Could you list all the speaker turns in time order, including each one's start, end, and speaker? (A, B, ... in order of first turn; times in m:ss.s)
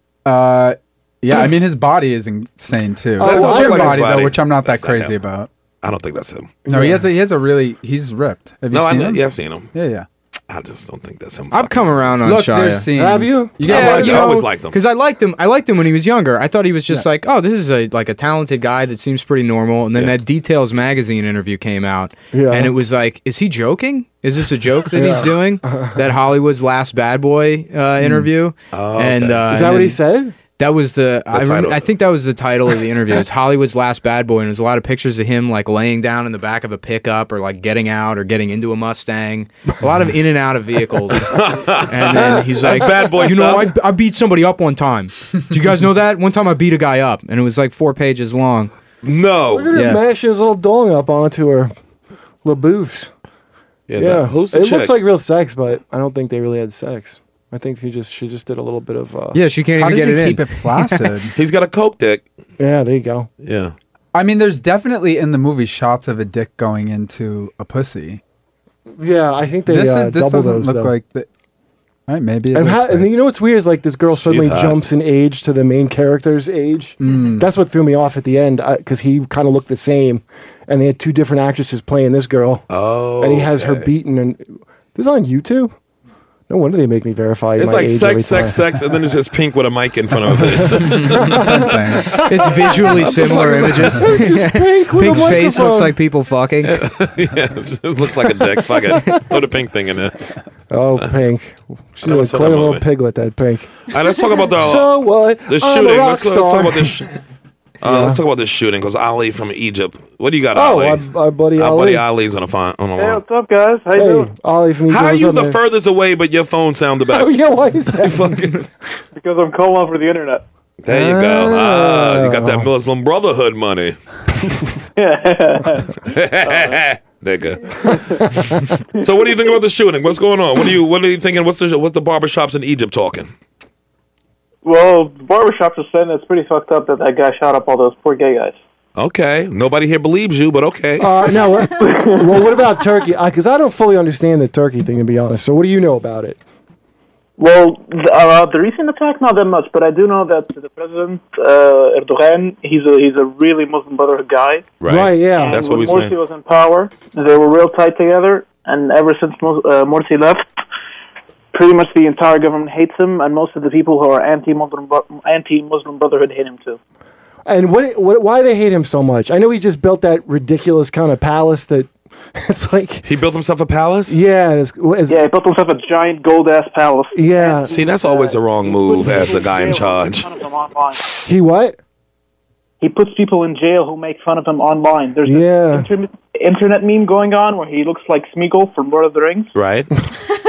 0:00.2-0:05.5 A
0:03.2-0:05.2 B
0:03.2-0:04.1 C
0:05.8-0:06.6 B
0:06.6-0:07.0 C
0:06.7-0:09.2 A
0:08.7-0:09.7 B
0:09.7-0:10.1 A
0:10.5-0:12.1 B
0:11.5-0:12.9 D
0:12.2-0:14.5 A
0:12.9-0:14.3 C
0:13.6-0:14.8 B
0:13.7-0:30.0 D
0:22.3-0:22.8 C
0:24.9-0:26.0 C
0:28.7-0:29.4 B
0:29.5-0:30.3 C
0:30.5-0:48.7 D
0:31.3-0:31.8 B
0:41.3-0:43.7 B
0:42.7-0:43.4 C
0:49.0-0:49.7 B
0:49.5-0:51.7 C
0:49.7-0:50.0 D
0:52.4-0:53.1 C
0:53.9-0:54.9 B
0:54.0-0:59.4 C
0:59.3-1:01.1 D
0:59.8-1:01.3 A
1:01.4-1:02.2 B
1:02.6-1:03.3 C
1:03.4-1:03.7 B
1:04.1-1:08.2 A
1:09.0-1:10.9 C
1:09.7-1:11.3 A
1:12.1-1:13.1 A
1:12.5-1:22.6 C
1:14.2-1:14.8 B
1:17.0-1:17.4 A
1:22.7-1:23.9 B
1:23.2-1:25.7 C
1:26.5-1:28.6 C
1:27.6-1:31.4 B
1:30.3-1:36.0 C
1:30.9-1:32.2 A
1:32.1-1:33.9 B
1:32.2-1:36.8 D
1:36.6-1:40.2 B
1:38.7-1:39.2 C
1:40.7-1:43.8 C
1:42.0-1:42.8 B
1:43.9-1:47.1 B
1:44.5-1:47.0 C
1:47.8-1:51.0 B
1:47.8-1:48.2 C
1:50.5-1:52.0 C
1:51.5-1:53.2 B
1:53.0-1:54.3 E
1:53.9-1:55.6 C
1:54.9-1:57.4 B
1:57.1-1:58.5 C
1:58.0-1:58.6 B
1:59.1-2:00.4 E
2:00.8-2:04.0 B
2:00.9-2:02.7 C
2:04.3-2:04.7 C
2:05.0-2:05.9 E
2:06.0-2:08.0 B
2:06.4-2:06.8 E
2:07.8-2:08.6 C
2:07.9-2:08.2 E
2:09.0-2:13.3 B
2:09.0-2:09.5 E
2:14.6-2:18.6 E
2:19.0-2:21.3 B
2:21.0-2:26.4 C
2:21.8-2:22.6 E
2:27.4-2:34.7 E
2:34.8-2:36.1 B
2:34.9-2:35.7 C
2:35.4-2:40.4 E
2:41.5-2:46.8 E
2:47.4-2:53.0 C
2:53.0-2:54.2 B
2:54.1-2:55.2 C
2:55.1-3:01.0 E
2:57.1-2:57.7 C
2:57.7-3:00.3 B
3:01.2-3:01.8 C
3:02.8-3:09.5 E
3:05.2-3:05.9 C
3:09.5-3:09.9 B